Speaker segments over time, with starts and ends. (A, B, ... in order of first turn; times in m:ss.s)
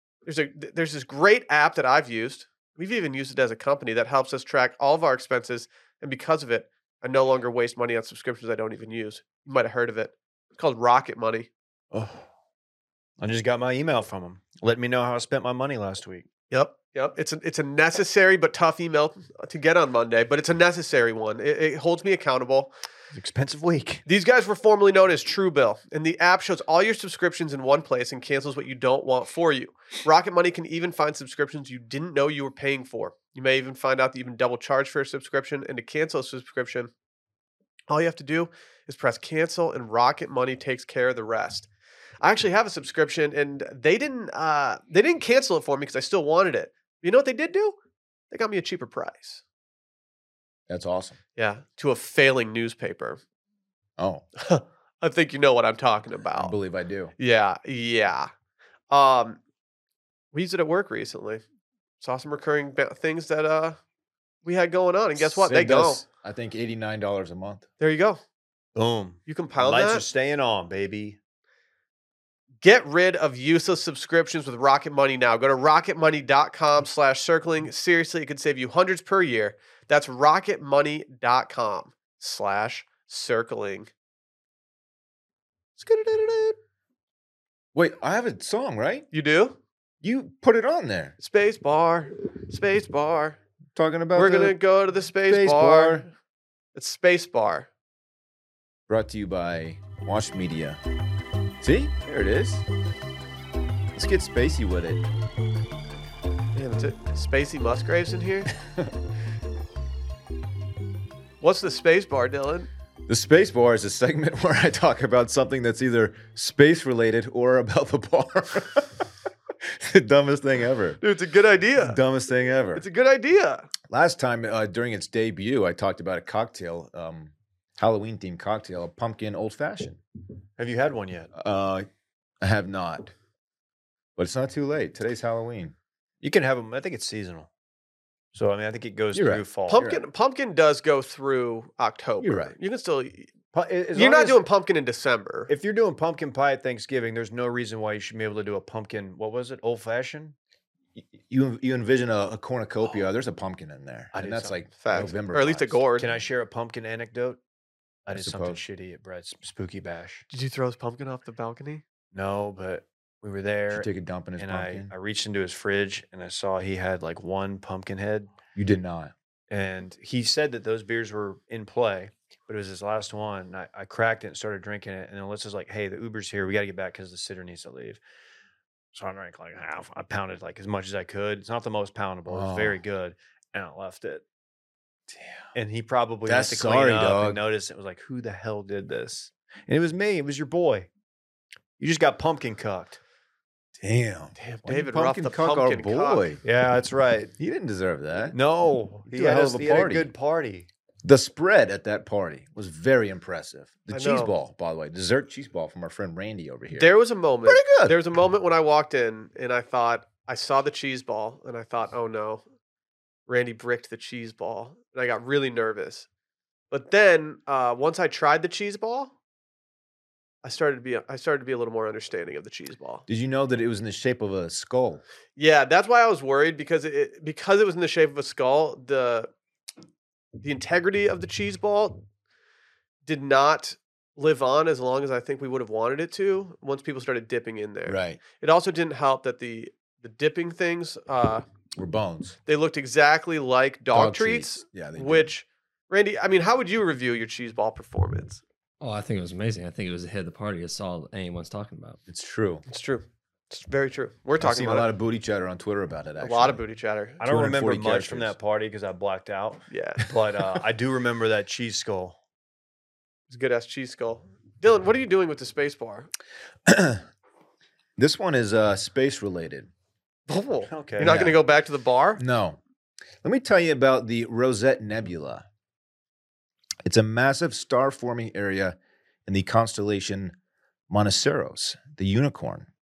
0:00.3-0:11.5 A
0:11.9-0:12.3 B
0:13.2-0:16.3 B
0:16.5-0:22.7 A
0:23.1-0:24.0 B
0:24.1-0:36.9 A
0:37.9-0:41.7 A
0:42.2-0:47.7 A
0:48.3-0:49.4 A
0:50.7-0:51.2 C
0:51.4-0:53.2 A
0:54.0-0:54.3 C
0:54.4-0:56.6 A
0:56.3-0:57.1 C
0:57.2-0:58.3 A
0:58.9-0:59.4 A
1:00.3-1:01.4 A
1:02.0-1:03.8 A
1:04.4-1:06.0 A
1:05.2-1:07.6 C
1:07.8-1:08.2 A
1:08.7-1:11.2 B
1:09.3-1:10.0 A
1:12.6-1:23.9 A
1:25.8-1:26.6 A
1:27.7-1:29.1 C
1:29.1-1:29.6 A
1:30.0-1:31.1 C
1:31.2-1:33.4 A
1:33.7-1:34.6 C
1:34.1-1:36.1 A
1:35.3-1:36.1 C
1:36.7-1:37.7 A
1:38.9-1:40.8 C
1:41.6-1:42.6 C
1:43.9-1:45.0 C
1:46.6-1:48.5 A
1:48.7-1:48.9 C
1:51.4-1:52.7 A
1:53.1-1:59.1 C
1:59.6-2:01.0 C
2:01.0-2:02.0 A
2:01.8-2:02.8 C
2:02.7-2:03.7 A
2:03.9-2:10.0 C
2:10.6-2:11.3 B
2:11.3-2:11.9 C
2:12.4-2:13.1 C
2:14.2-2:15.7 C
2:16.2-2:17.5 B
2:18.3-2:19.8 B
2:19.1-2:20.0 C
2:19.7-2:23.3 A
2:22.2-2:22.6 C
2:23.5-2:24.4 B
2:24.0-2:25.5 A
2:25.5-2:30.3 B
2:31.0-2:35.8 C
2:34.1-2:34.6 B
2:34.8-2:36.2 A
2:36.0-2:37.4 B
2:38.0-2:40.2 B
2:38.1-2:38.6 C
2:40.3-2:41.8 A
2:42.1-2:48.3 B
2:43.7-2:44.9 C
2:48.6-2:49.1 C
2:49.5-2:58.0 B
2:58.9-3:04.2 B
3:02.3-3:02.8 C
3:05.1-3:05.4 C
3:05.5-3:10.9 B
3:06.3-3:07.4 C
3:11.8-3:13.0 B
3:13.8-3:16.4 C
3:14.4-3:16.3 A
3:16.4-3:17.3 B
3:17.4-3:18.4 C
3:18.3-3:20.7 B
3:19.1-3:20.1 C
3:21.0-3:26.9 C
3:23.9-3:24.3 A
3:26.7-3:32.4 A
3:27.4-3:28.0 C
3:33.3-3:36.0 A
3:36.7-3:39.1 A
3:40.4-3:43.0 A
3:43.1-3:45.0 C
3:45.4-3:49.3 A
3:50.4-3:52.0 A
3:53.0-4:01.4 A
3:57.9-3:58.2 C
4:01.7-4:02.4 C
4:02.4-4:08.4 A
4:03.9-4:05.3 C
4:08.8-4:12.0 D
4:12.1-4:12.6 C
4:12.7-4:14.9 A
4:14.4-4:16.6 C
4:16.2-4:17.2 A
4:17.2-4:22.2 B
4:17.2-4:18.3 C
4:19.7-4:20.0 A
4:23.3-4:26.1 A
4:26.6-4:27.0 C
4:28.0-4:29.7 C
4:30.3-4:32.2 A
4:30.7-4:31.2 B
4:31.0-4:31.4 C
4:32.2-4:32.6 C
4:33.2-4:35.4 C
4:36.8-4:40.3 C
4:40.9-4:42.7 C